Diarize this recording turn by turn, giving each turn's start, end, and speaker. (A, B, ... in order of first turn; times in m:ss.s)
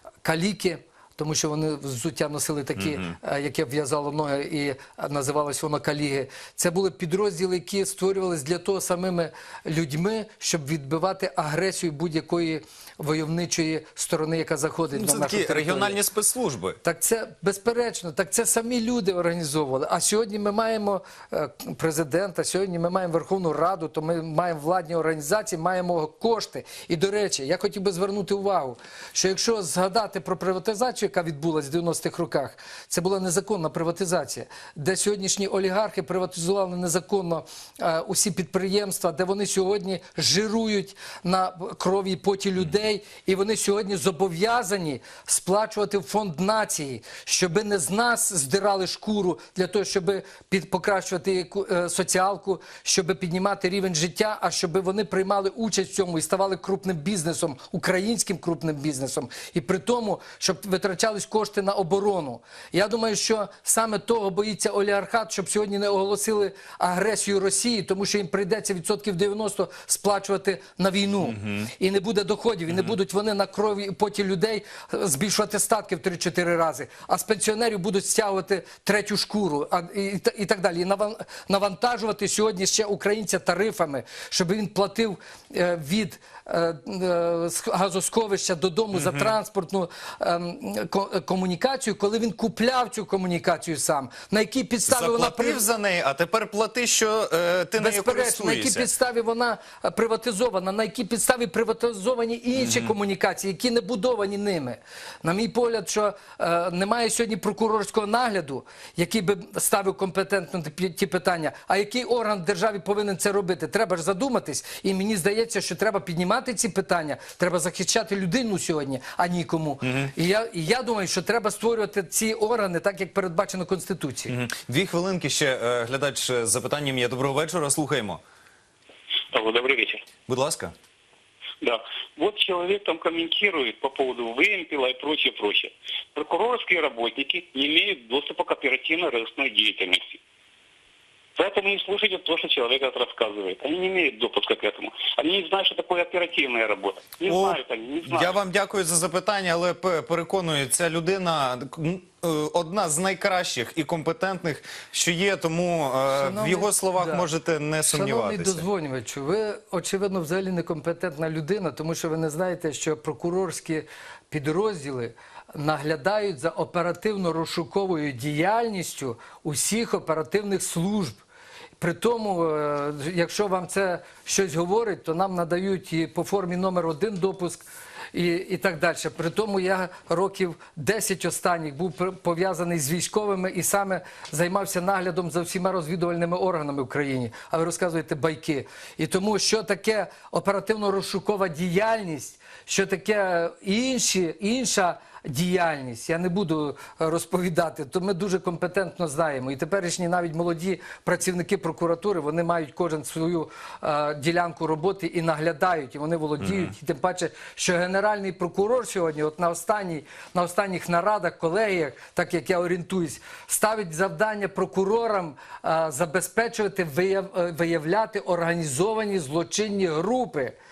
0:00.2-0:16.0 A
0:02.8-0:03.1 B
0:14.9-0:16.8 B
0:16.8-1:35.6 A
1:11.3-1:11.6 B
1:28.9-1:29.3 B
1:34.9-1:38.9 B
1:37.8-2:04.3 A
1:42.6-1:42.9 B
1:59.8-2:00.1 B
2:04.3-2:08.2 B
2:09.3-2:10.0 C
2:10.3-2:10.7 B
2:11.6-2:20.2 C
2:21.4-2:28.3 C
2:27.2-2:38.6 B
2:36.1-2:37.3 A
2:37.9-2:51.2 A
2:51.8-3:40.5 A
3:26.4-3:26.7 B